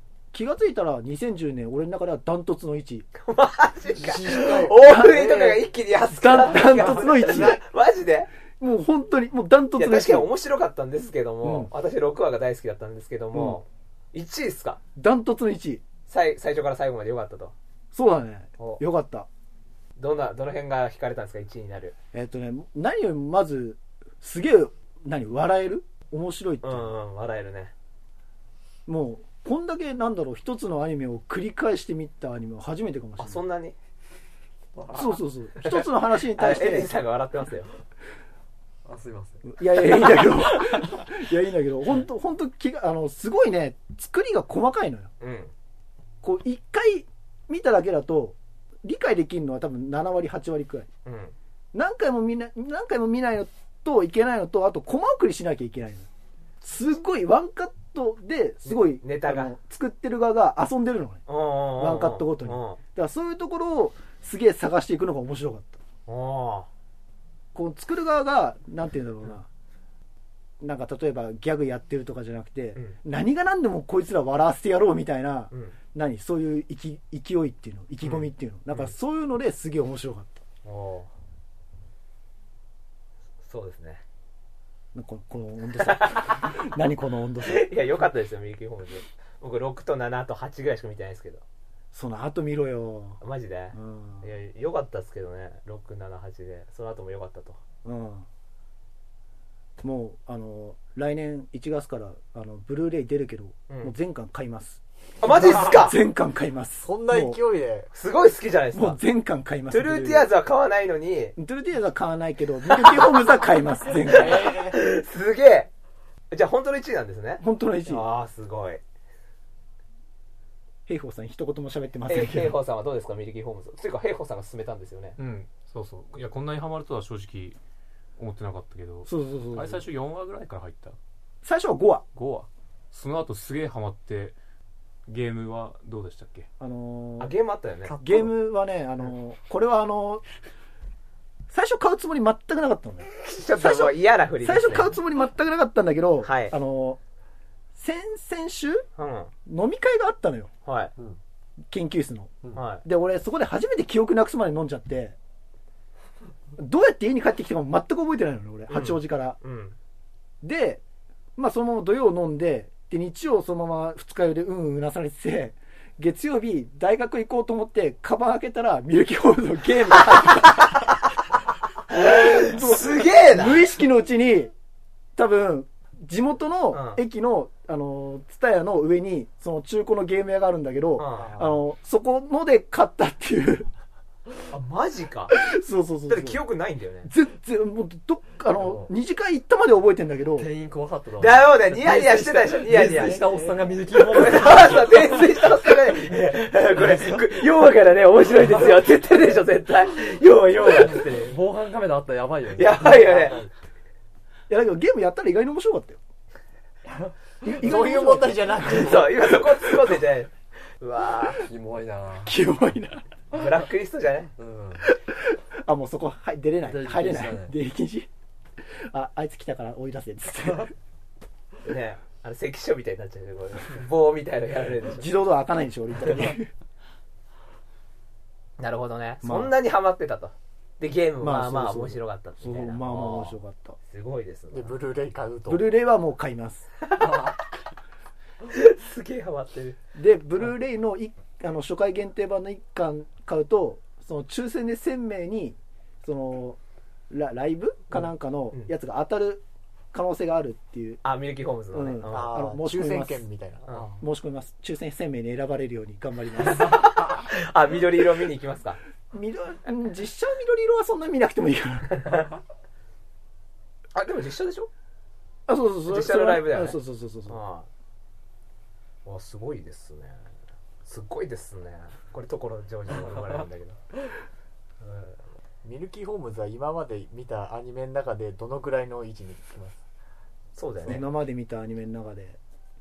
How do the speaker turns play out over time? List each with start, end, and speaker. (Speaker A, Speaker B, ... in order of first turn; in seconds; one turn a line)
Speaker A: 0.3-3.1
Speaker B: 3.2-8.3
Speaker C: 4.0-4.8
Speaker A: 4.7-7.6
Speaker C: 6.6-7.6
Speaker A: 8.5-10.3
Speaker B: 9.8-14.8
Speaker A: 11.4-11.7
Speaker A: 13.3-13.6
Speaker A: 15.0-15.8
Speaker B: 16.1-17.5
Speaker A: 17.9-19.3
Speaker B: 20.0-22.0
Speaker A: 22.1-26.9
Speaker B: 26.6-27.7
Speaker A: 28.9-33.4
Speaker B: 33.2-33.8
Speaker D: 34.8-35.2
Speaker A: 34.9-36.9
Speaker B: 35.6-37.7
Speaker D: 38.9-39.8
Speaker A: 39.5-45.1
Speaker B: 45.2-45.5
Speaker A: 46.2-50.9
Speaker B: 51.0-51.3
Speaker A: 51.7-56.1
Speaker A: 56.6-61.2
Speaker B: 58.7-59.5
Speaker B: 61.3-62.8
Speaker A: 61.8-65.8
Speaker B: 66.1-66.7
Speaker A: 67.5-69.5
Speaker A: 70.6-80.4
Speaker B: 75.5-75.8
Speaker B: 78.0-78.9
Speaker B: 80.7-81.1
Speaker B: 83.4-84.0
Speaker A: 84.9-87.7
Speaker B: 85.8-86.5
Speaker B: 87.4-91.4
Speaker A: 91.9-93.2
Speaker B: 93.2-97.6
Speaker A: 93.7-94.3
Speaker A: 97.8-98.3
Speaker A: 99.8-107.4
Speaker B: 103.7-103.9
Speaker B: 105.2-106.0
Speaker C: 106.8-107.9
Speaker B: 107.9-109.0
Speaker A: 108.7-110.3
Speaker B: 109.7-111.3
Speaker A: 111.4-114.5
Speaker B: 112.7-113.1
Speaker C: 114.1-114.8
Speaker B: 114.1-115.7
Speaker B: 116.3-118.8
Speaker A: 117.4-118.0
Speaker A: 120.9-122.5
Speaker B: 122.1-125.2
Speaker E: 125.2-127.6
Speaker E: 128.2-131.0
Speaker A: 129.1-129.8
Speaker A: 131.4-132.1
Speaker E: 132.2-134.4
Speaker E: 135.1-136.5
Speaker A: 136.6-137.3
Speaker B: 137.2-138.0
Speaker D: 137.9-138.3
Speaker A: 138.0-140.2
Speaker A: 141.5-147.0
Speaker B: 143.2-145.0
Speaker B: 146.2-146.5
Speaker A: 147.8-148.9
Speaker B: 149.0-149.3
Speaker A: 149.5-150.5
Speaker B: 150.7-150.9
Speaker A: 151.7-155.2
Speaker B: 152.5-152.8
Speaker A: 156.6-159.4
Speaker B: 158.7-159.8
Speaker A: 160.4-160.8
Speaker A: 161.4-170.6
Speaker B: 171.9-173.7
Speaker A: 171.9-174.5
Speaker A: 175.2-183.7
Speaker B: 176.7-177.0
Speaker B: 181.0-181.3
Speaker C: 181.2-181.6
Speaker B: 184.5-185.3
Speaker A: 185.3-186.4
Speaker B: 186.1-187.1
Speaker A: 187.1-190.5
Speaker D: 188.6-188.9
Speaker D: 190.4-195.2
Speaker B: 191.2-193.2
Speaker C: 192.7-194.6
Speaker B: 194.1-201.4
Speaker D: 201.3-203.2
Speaker B: 202.6-203.4
Speaker C: 202.6-203.5
Speaker A: 204.5-206.0
Speaker A: 207.4-209.1
Speaker C: 207.4-209.3
Speaker B: 208.6-211.4
Speaker D: 211.4-212.4
Speaker A: 212.2-213.1
Speaker B: 213.3-214.3
Speaker D: 214.4-214.9
Speaker A: 214.8-218.1
Speaker D: 216.7-217.5
Speaker A: 218.6-220.7
Speaker B: 221.6-225.1
Speaker A: 224.9-226.5
Speaker B: 228.6-233.4
Speaker A: 229.2-229.5
Speaker A: 231.2-233.8
Speaker B: 233.9-234.8
Speaker C: 234.5-235.7
Speaker A: 235.5-236.7
Speaker D: 237.0-237.4
Speaker B: 238.4-239.8
Speaker A: 239.9-246.6
Speaker A: 247.1-251.0
Speaker B: 251.0-252.5
Speaker A: 251.7-253.2
Speaker C: 252.1-254.0
Speaker A: 254.0-257.0
Speaker B: 256.4-258.8
Speaker A: 259.1-262.1
Speaker B: 261.9-262.3
Speaker B: 263.9-264.7
Speaker A: 265.5-267.4
Speaker B: 265.9-267.7
Speaker B: 269.1-270.2
Speaker B: 270.8-273.8
Speaker B: 274.8-275.2
Speaker C: 275.6-279.8
Speaker B: 280.6-281.1
Speaker A: 280.9-282.4